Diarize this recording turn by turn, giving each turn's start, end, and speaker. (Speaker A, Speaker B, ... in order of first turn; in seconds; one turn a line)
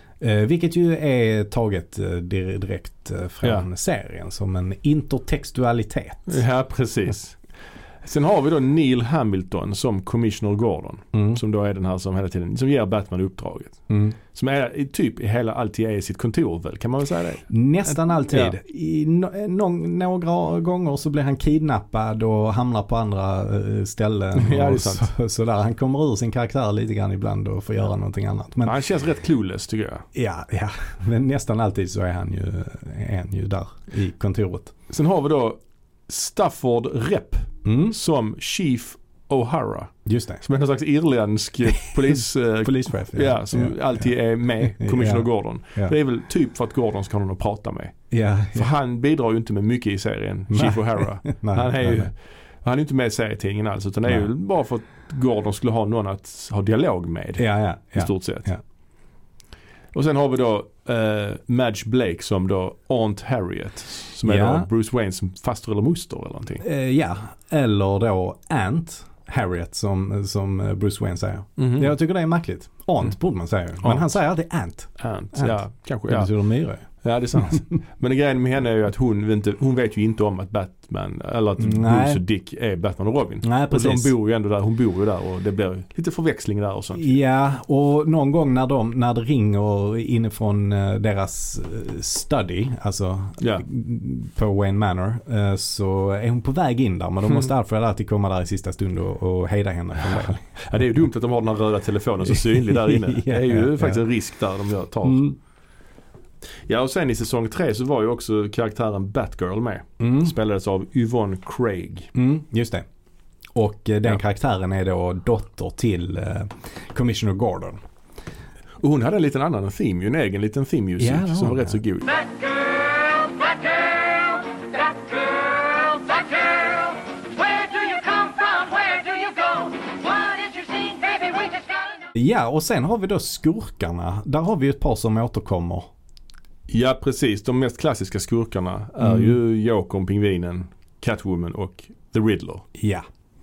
Speaker A: 0.2-6.4
Speaker B: 6.3-7.4
Speaker B: 8.0-18.6
Speaker A: 11.1-11.4
Speaker A: 13.9-14.1
Speaker A: 17.5-28.8
Speaker B: 24.3-25.1
Speaker B: 28.6-30.0
Speaker A: 30.1-34.7
Speaker B: 34.9-48.0
Speaker A: 37.6-38.0
Speaker A: 40.0-40.4
Speaker A: 42.6-45.9
Speaker A: 48.1-48.7
Speaker B: 48.5-58.5
Speaker A: 50.5-52.1
Speaker A: 57.4-58.6
Speaker B: 59.9-66.6
Speaker A: 64.2-64.7
Speaker A: 66.6-76.8
Speaker B: 71.6-71.9
Speaker B: 73.8-74.1
Speaker B: 75.0-76.3
Speaker B: 77.0-87.1
Speaker A: 81.6-82.2
Speaker A: 83.4-84.1
Speaker A: 86.9-100.5
Speaker B: 93.4-93.7
Speaker B: 100.5-105.3
Speaker A: 102.3-104.0
Speaker A: 105.0-105.3
Speaker B: 106.7-112.1
Speaker A: 110.0-110.3
Speaker A: 112.1-112.8
Speaker A: 113.5-117.8
Speaker B: 118.8-122.1
Speaker A: 121.0-121.8
Speaker C: 122.0-132.1
Speaker A: 132.1-135.9
Speaker B: 136.7-142.6
Speaker A: 139.0-139.4
Speaker A: 142.8-143.1